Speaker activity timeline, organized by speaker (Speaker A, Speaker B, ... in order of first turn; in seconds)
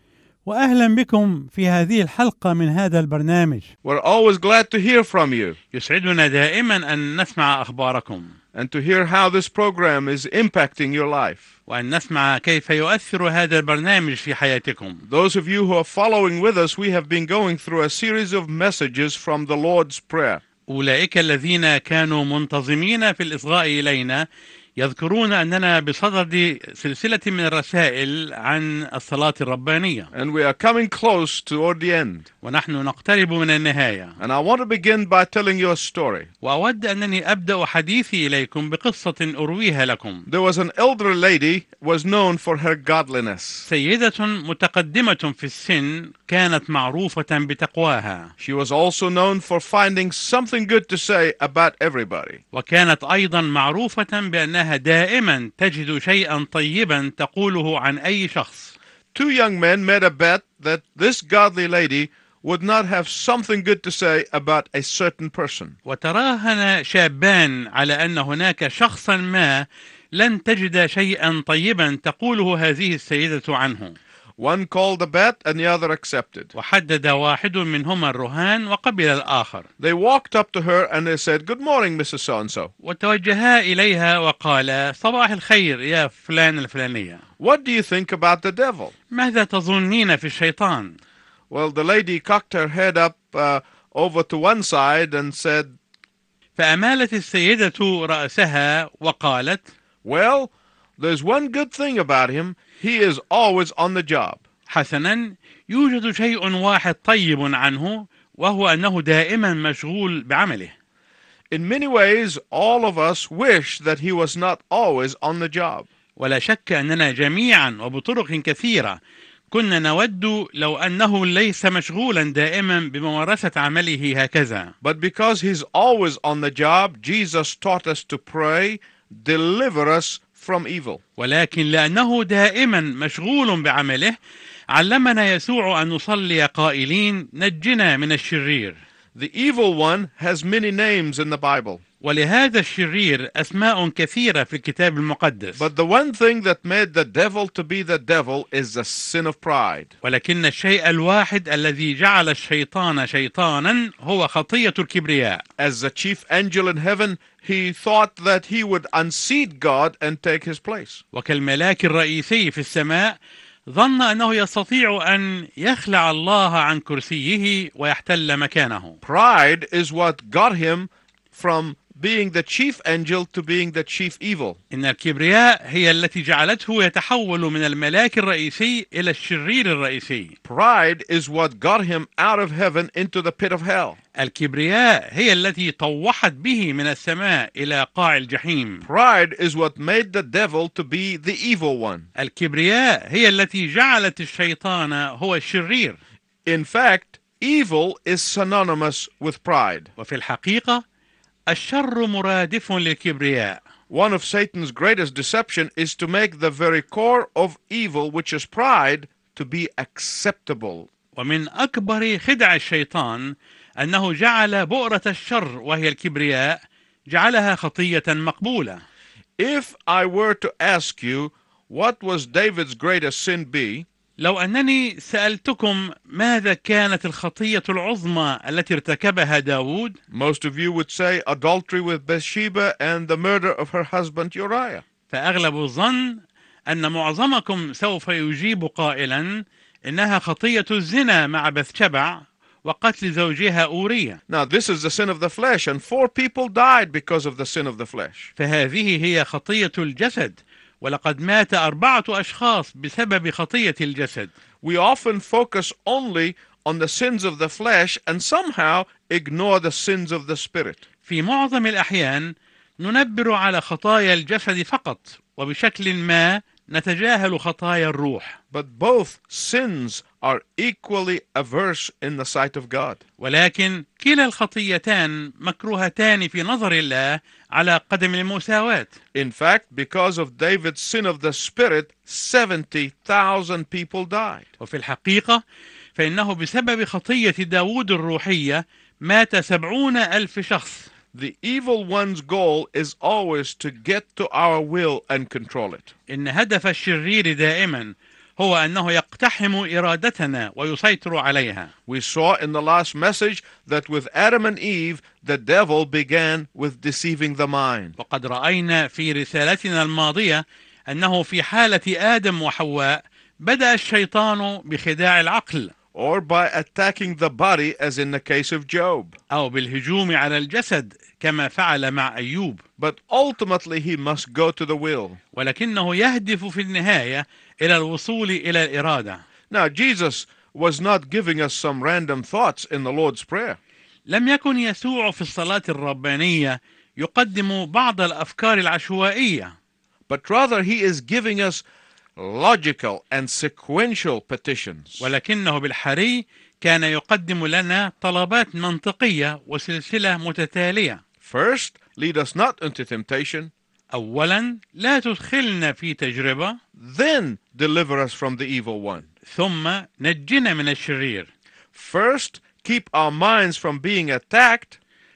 Speaker A: 0.4-3.7, 5.7-8.3, 11.7-15.0, 20.7-30.1, 32.4-34.2, 36.4-40.3, 43.7-48.3, 52.5-58.7, 65.8-74.0, 76.5-79.7, 82.8-87.2, 89.1-91.0, 96.5-99.7, 104.7-110.7, 116.2-119.0, 119.5-124.7, 131.2-134.2, 134.7-138.8, 142.0-145.6, 150.0-155.4, 161.1-169.0, 174.7-180.3, 184.1-188.8, 192.2-196.0, 200.0-200.8, 201.5-203.6, 211.2-218.8, 224.2-230.0, 235.1-244.2, 248.4-254.3, 261.0-268.4, 273.2-278.9, 284.6-285.4, 285.9-290.9, 296.1-301.7, 308.0-315.7, 319.3-322.6, 325.3-329.2, 334.1-339.5, 345.0-351.0, 353.9-356.6, 359.2-361.3
Speaker B: 3.8-5.6, 8.5-11.5, 15.1-20.4, 30.1-32.3, 34.2-36.3, 40.3-43.7, 48.4-52.4, 59.1-65.8, 74.4-76.5, 79.8-82.7, 87.4-88.9, 91.5-95.7, 100.0-104.4, 111.5-115.9, 124.8-131.0, 139.1-141.8, 145.6-149.9, 155.6-161.0, 169.0-174.6, 180.4-184.0, 188.8-192.1, 196.4-199.9, 203.9-210.9, 219.4-223.8, 230.1-234.8, 244.3-248.3, 254.6-260.8, 268.5-273.0, 279.1-284.4, 291.1-295.9, 301.9-307.9, 315.9-319.1, 322.8-325.2, 329.5-333.6, 340.1-341.6, 342.2-345.1, 351.2-353.5, 356.8-359.1, 361.7-364.8